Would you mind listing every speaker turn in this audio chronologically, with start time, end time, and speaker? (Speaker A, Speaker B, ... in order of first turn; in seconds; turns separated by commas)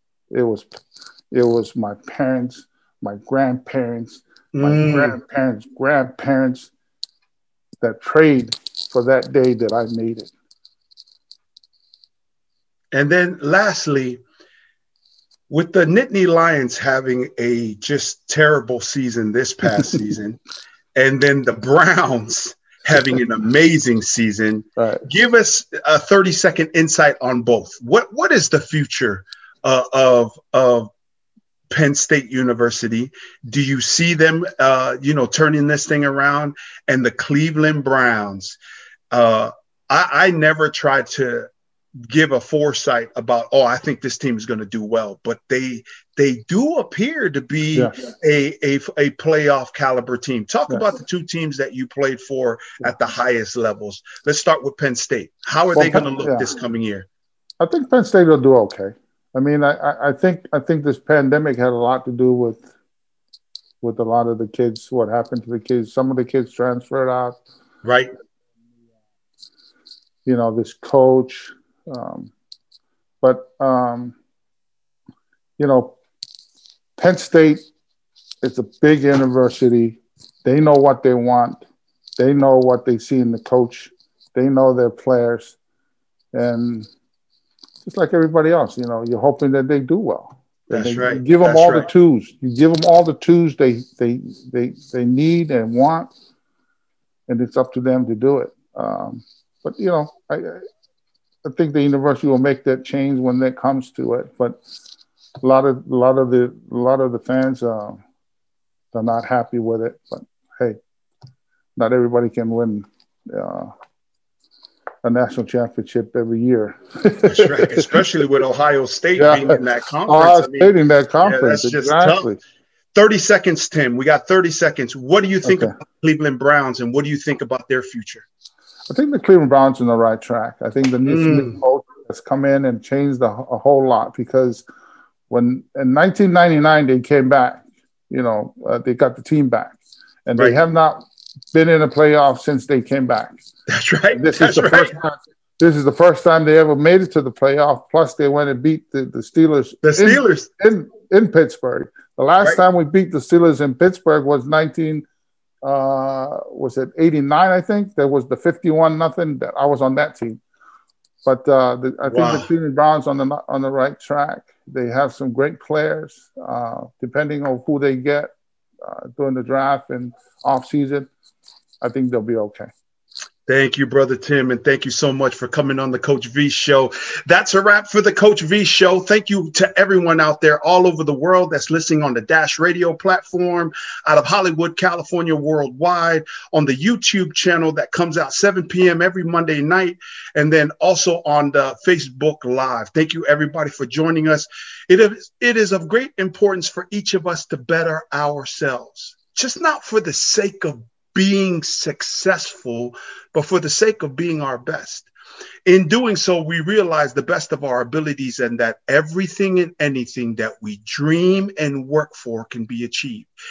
Speaker A: 0.3-6.7, Speaker B: 4.5-5.2, Speaker A: 7.8-10.3, Speaker B: 12.9-14.2, Speaker B: 15.5-20.4, Speaker B: 20.9-30.9, Speaker A: 24.8-25.1, Speaker B: 31.7-38.6, Speaker B: 39.1-41.5, Speaker B: 42.1-57.1, Speaker A: 55.7-56.5, Speaker A: 57.6-62.6, Speaker A: 63.8-67.4, Speaker B: 67.8-68.1, Speaker A: 70.3-72.3, Speaker A: 73.2-74.2, Speaker A: 75.6-76.0, Speaker A: 77.0-77.7, Speaker A: 78.4-81.6, Speaker A: 82.2-85.6, Speaker A: 86.3-86.9, Speaker A: 87.8-96.1, Speaker B: 90.7-91.9, Speaker A: 97.3-100.6, Speaker A: 101.4-104.6, Speaker A: 105.4-108.0, Speaker A: 108.9-110.8, Speaker A: 111.8-113.7, Speaker A: 115.0-117.9, Speaker B: 117.2-122.3, Speaker A: 119.2-122.4, Speaker B: 122.9-128.2, Speaker A: 125.5-125.8, Speaker A: 128.9-134.6, Speaker B: 131.1-131.6, Speaker A: 135.3-143.3, Speaker B: 143.7-144.9, Speaker A: 144.1-155.1, Speaker B: 149.8-150.5, Speaker A: 155.6-160.4, Speaker A: 161.2-168.3, Speaker B: 162.1-162.5, Speaker A: 168.8-171.1, Speaker A: 171.8-172.7, Speaker B: 173.4-205.1, Speaker B: 205.7-213.3